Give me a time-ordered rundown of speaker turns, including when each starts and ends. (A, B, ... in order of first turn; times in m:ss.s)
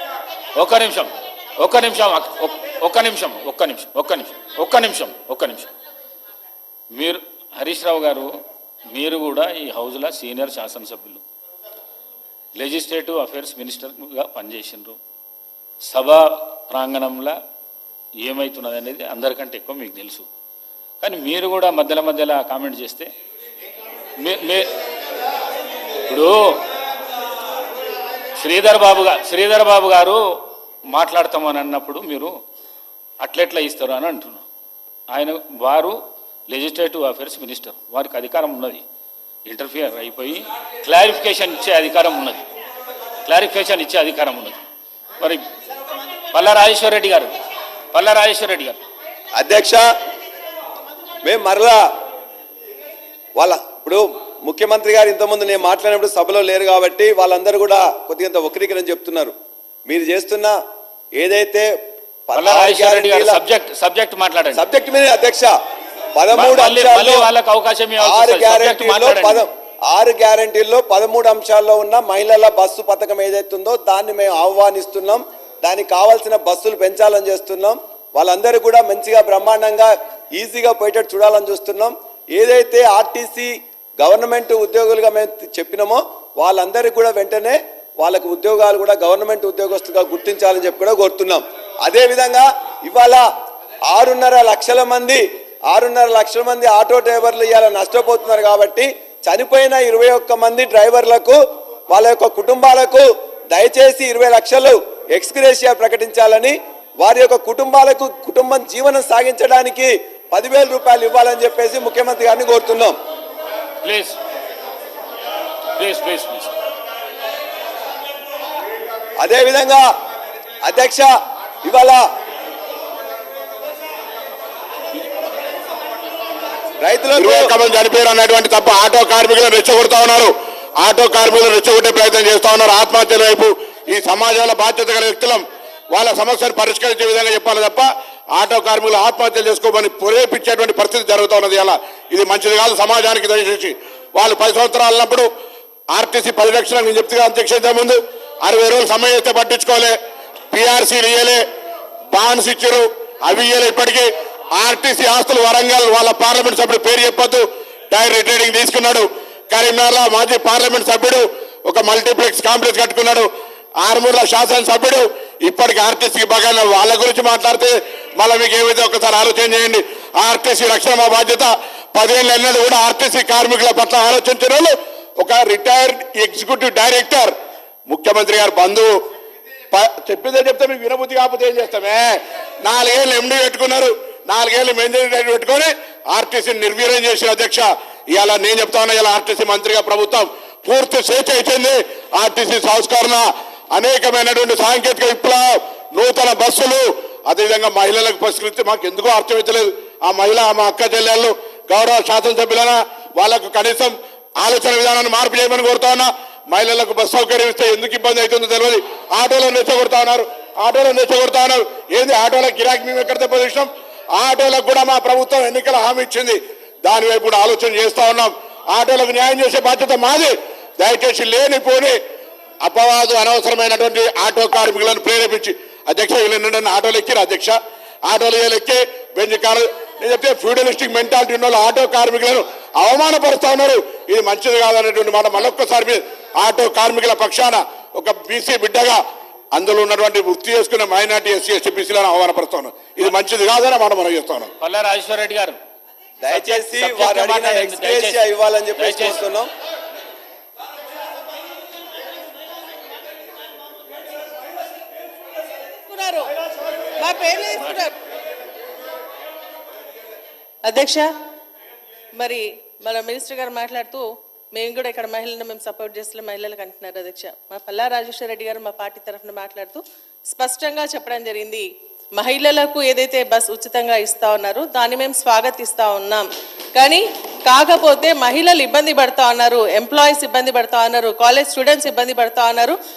0:00.6-0:05.7 A
0:06.9-0:08.3 A
0:08.9-0:11.2 A
0:12.6-0:15.0 A
0:15.9-0:17.4 A
0:18.2-0:20.3 A
0:21.0-0:23.1 A
0:24.2-0:24.7 A
0:26.1-0:26.6 A
0:28.4-0:30.3 A
0:30.9-0:32.3 A
0:33.2-0:34.5 A
0:35.1-0:38.8 A
0:39.5-0:42.5 A
0:43.2-0:44.6 A
0:45.2-0:45.4 A
0:46.3-0:47.3 A
0:47.9-0:48.8 A
0:49.4-0:49.8 B
0:51.2-0:51.8 B
0:53.4-0:59.4 B
0:59.9-1:00.6 B
1:01.2-1:01.7 B
1:02.3-1:03.4 B
1:02.3-1:04.6 A
1:04.5-1:05.5 B
1:06.2-1:07.3 B
1:06.3-1:09.4 A
1:08.0-1:33.2 B
1:33.9-1:53.0 B
1:53.8-1:54.2 A
1:55.8-1:56.5 A
1:59.2-1:59.9 B
2:00.6-2:01.1 B
2:01.6-2:02.0 B
2:06.8-2:07.5 B
2:07.2-2:25.3 C
2:25.9-2:30.0 C
2:30.5-2:31.4 C
2:32.1-2:43.3 C
2:43.8-2:57.3 C
2:57.9-2:58.9 C
2:59.7-3:42.0 C
3:42.6-3:59.0 C
3:59.6-4:04.5 C
4:04.6-4:05.6 A
4:06.2-4:09.5 B
4:06.3-4:08.2 A
4:08.8-4:09.2 A
4:15.9-4:16.3 D
4:17.0-4:17.9 D
4:20.6-4:21.1 D
4:22.2-4:42.8 D